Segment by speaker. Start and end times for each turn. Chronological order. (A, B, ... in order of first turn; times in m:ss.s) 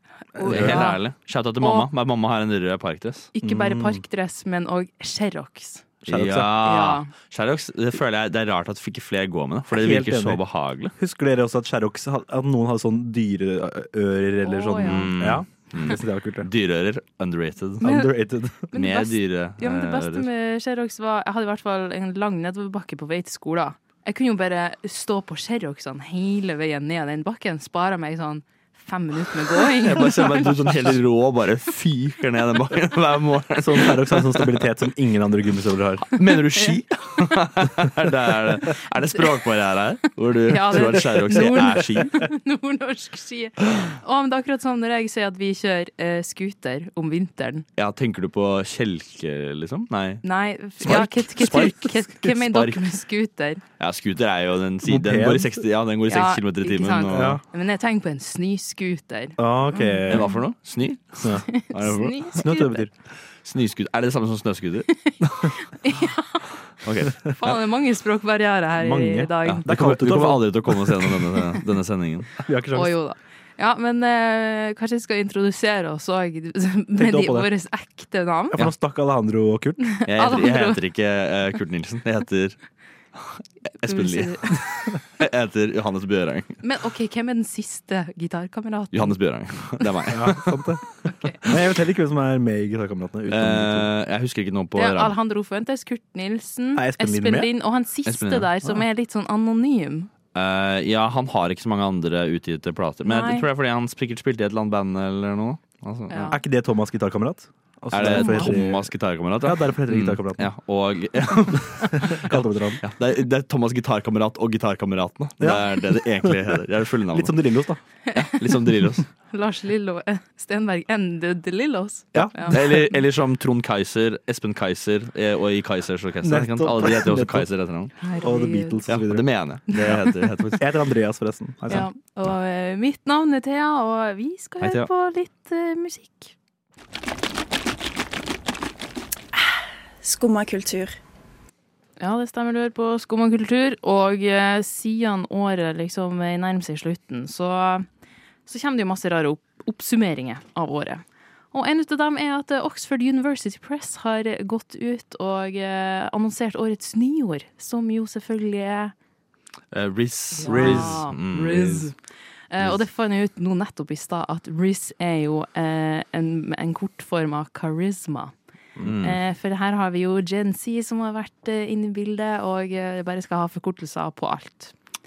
0:00.4-0:01.0 A
0:00.4-0:00.9 B
0:00.4-0:03.3 C
0:01.6-0:01.9 A
0:03.3-0:07.1 A
0:03.4-0:04.0 B
0:06.0-0:10.9 C
0:06.1-0:06.5 B
0:09.7-0:10.4 B
0:11.0-0:16.5 B
0:14.4-0:15.1 A
0:14.8-0:17.9 C
0:17.8-0:18.7 B
0:17.8-0:18.1 A
0:18.7-0:30.7 A
0:18.7-0:20.3 C
0:29.6-0:34.7 C
0:33.6-0:36.1 B
0:36.1-0:42.2 C
0:40.4-0:47.6 A
0:47.8-0:50.2 C
0:50.2-0:53.6 A
0:50.8-0:51.9 B
0:50.8-0:52.8 C
0:53.8-0:57.4 C
0:54.8-0:55.6 B
0:56.1-1:00.4 A
0:57.1-0:57.4 B
0:59.4-1:00.3 B
1:00.1-1:02.4 C
1:01.2-1:01.5 B
1:01.4-1:02.8 A
1:02.3-1:02.9 B
1:03.4-1:04.9 C
1:05.0-1:06.5 A
1:06.8-1:07.6 C
1:07.3-1:09.7 A
1:08.8-1:11.5 B
1:09.4-1:12.4 C
1:12.4-1:13.0 B
1:12.7-1:18.6 A
1:17.0-1:17.5 B
1:18.5-1:19.9 B
1:19.9-1:20.8 A
1:20.0-1:22.6 C
1:23.2-1:26.6 C
1:23.8-1:24.6 A
1:26.6-1:29.2 A
1:28.9-1:30.7 C
1:30.1-1:33.9 B
1:31.0-1:31.5 A
1:33.3-1:35.1 C
1:34.8-1:40.1 A
1:36.7-1:37.5 B
1:38.0-1:38.5 C
1:40.3-1:46.3 C
1:43.0-1:43.4 A
1:46.1-1:46.4 A
1:46.3-1:50.5 B
1:47.9-1:57.4 C
1:48.1-1:48.5 A
1:51.9-1:52.8 B
1:55.4-1:56.4 B
1:57.1-1:57.8 B
1:58.1-1:58.6 A
1:58.1-1:59.1 C
1:59.3-2:02.6 A
2:02.1-2:02.9 B
2:02.1-2:07.9 C
2:06.2-2:07.5 B
2:08.0-2:08.8 A
2:08.2-2:09.2 B
2:08.9-2:10.7 C
2:10.6-2:11.9 B
2:11.7-2:16.3 A
2:14.6-2:14.9 C
2:22.0-2:27.9 A
2:28.4-2:38.9 A
2:39.7-2:41.8 C
2:40.4-2:42.0 A
2:40.4-2:41.0 B
2:42.5-2:48.3 A
2:48.8-2:49.2 C
2:49.0-2:54.7 A